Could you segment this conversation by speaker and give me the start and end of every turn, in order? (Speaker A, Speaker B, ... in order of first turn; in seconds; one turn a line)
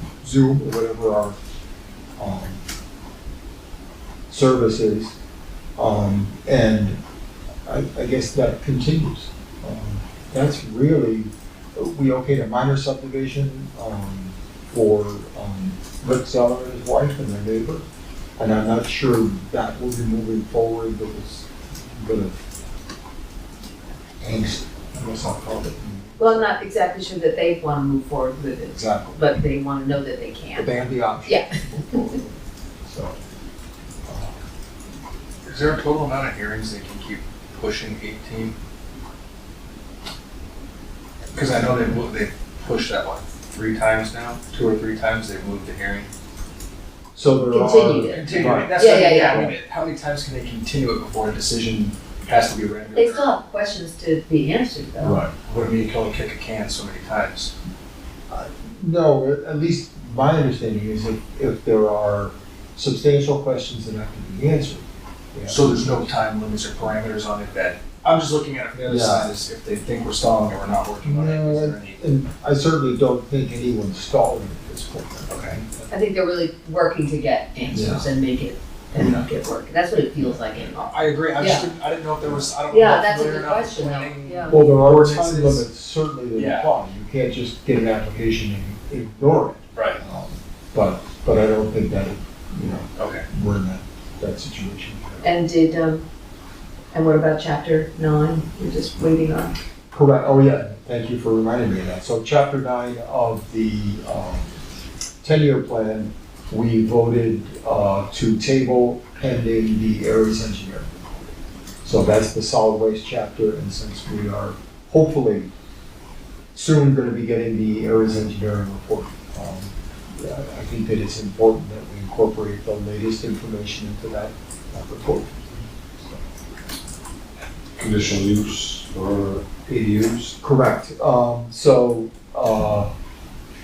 Speaker A: 0.2-1.4
Speaker A: 2.2-2.6
Speaker A: 4.3-5.2
Speaker A: 5.8-7.0
Speaker A: 7.6-17.8
Speaker A: 18.4-22.4
Speaker A: 24.2-26.6
Speaker B: 26.2-30.7
Speaker A: 28.7-29.2
Speaker A: 30.5-33.2
Speaker B: 31.2-31.6
Speaker A: 34.0-34.5
Speaker C: 35.5-38.5
Speaker C: 41.3-46.1
Speaker A: 47.1-49.5
Speaker B: 47.3-49.5
Speaker C: 48.1-53.3
Speaker B: 52.9-55.2
Speaker C: 55.1-57.5
Speaker A: 58.3-65.6
Speaker C: 65.5-72.0
Speaker A: 68.7-69.3
Speaker A: 71.0-75.9
Speaker C: 75.3-75.6
Speaker B: 75.9-81.7
Speaker A: 77.7-78.1
Speaker A: 79.0-79.2
Speaker C: 80.7-85.6
Speaker A: 82.2-82.5
Speaker B: 82.7-84.6
Speaker A: 84.5-95.3
Speaker C: 86.3-86.7
Speaker C: 89.7-90.0
Speaker C: 93.0-93.2
Speaker B: 95.2-96.0
Speaker B: 96.9-99.5
Speaker A: 99.9-104.5
Speaker A: 105.2-111.1
Speaker A: 111.8-115.5
Speaker A: 116.5-126.2
Speaker D: 127.8-130.3
Speaker A: 130.4-132.9